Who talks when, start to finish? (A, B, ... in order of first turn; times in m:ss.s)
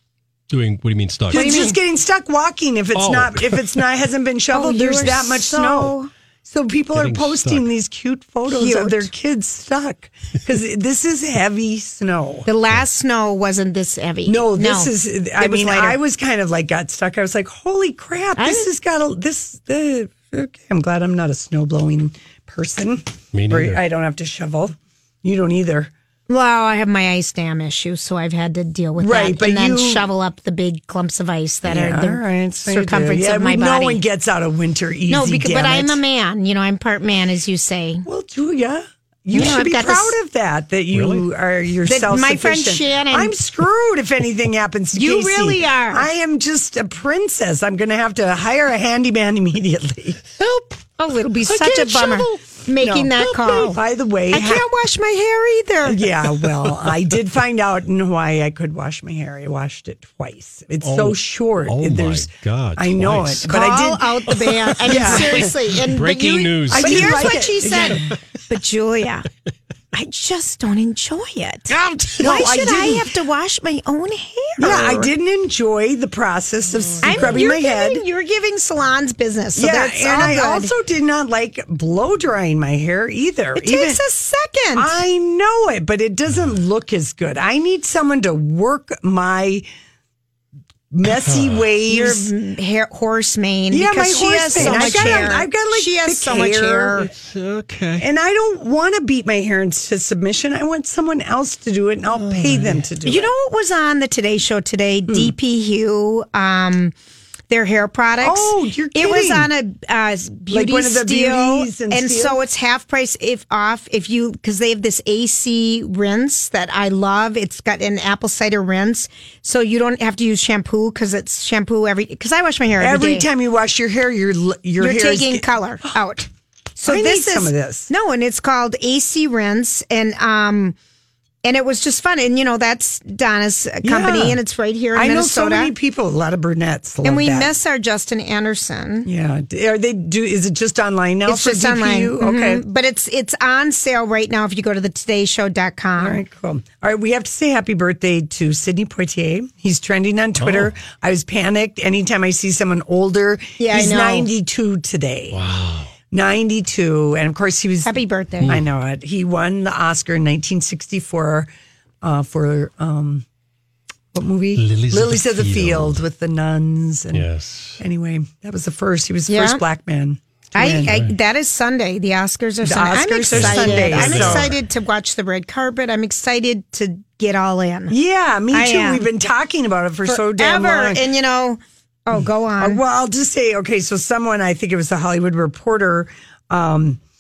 0:00.5-0:01.8 A
0:01.3-0:12.5 B
0:01.3-0:01.8 C
0:03.0-0:03.8 A
0:04.5-0:06.1 C
0:06.9-0:07.7 A
0:08.5-0:09.1 C
0:12.5-0:16.0 C
0:14.3-0:25.9 B
0:18.4-0:18.7 C
0:23.3-0:23.8 A
0:26.3-0:34.0 C
0:29.0-0:30.1 B
0:31.7-0:36.0 B
0:35.1-0:38.1 C
0:38.1-0:50.2 B
0:39.3-0:40.2 C
0:40.9-0:41.3 A
0:41.9-0:43.4 C
0:45.0-0:46.1 C
0:50.4-0:50.8 A
0:51.0-0:56.1 C
0:51.5-0:52.2 A
0:51.6-0:54.7 B
0:55.9-1:04.3 B
1:00.8-1:03.5 A
1:03.5-1:09.2 C
1:04.3-1:08.1 A
1:04.8-1:05.5 B
1:06.7-1:08.1 B
1:09.9-1:15.1 C
1:11.7-1:12.2 A
1:12.2-1:13.1 B
1:14.6-1:18.0 B
1:16.8-1:17.4 A
1:17.0-1:20.7 C
1:19.6-1:24.0 B
1:23.6-1:25.0 C
1:24.8-1:29.7 B
1:30.9-1:32.3 B
1:31.1-1:31.6 A
1:31.9-1:37.1 C
1:33.7-1:37.0 B
1:34.6-1:35.3 A
1:37.0-1:38.1 A
1:38.0-1:43.3 B
1:42.2-1:42.8 A
1:43.0-1:47.0 C
1:45.1-1:45.3 B
1:47.5-2:03.3 C
1:48.2-1:49.5 B
1:50.5-1:52.4 B
2:02.8-2:05.4 B
2:04.8-2:10.8 C
2:06.8-2:07.9 B
2:11.4-2:15.7 C
2:13.8-2:14.4 B
2:14.9-2:17.5 B
2:17.0-2:19.1 C
2:19.1-2:22.6 B
2:21.3-2:26.2 C
2:26.0-2:35.4 B
2:30.4-2:30.7 A
2:33.6-2:34.3 C
2:35.3-2:35.9 A
2:36.1-2:41.5 B
2:37.9-2:38.6 C
2:42.0-2:43.2 B
2:44.1-2:51.0 B
2:44.6-2:46.0 A
2:47.1-2:47.8 A
2:49.3-2:49.6 C
2:50.5-2:58.0 C
2:50.7-2:51.1 A
2:52.6-2:54.5 B
2:53.3-2:54.6 A
2:57.9-3:01.0 B
2:58.5-2:59.1 C
3:00.1-3:02.8 C
3:02.6-3:07.0 B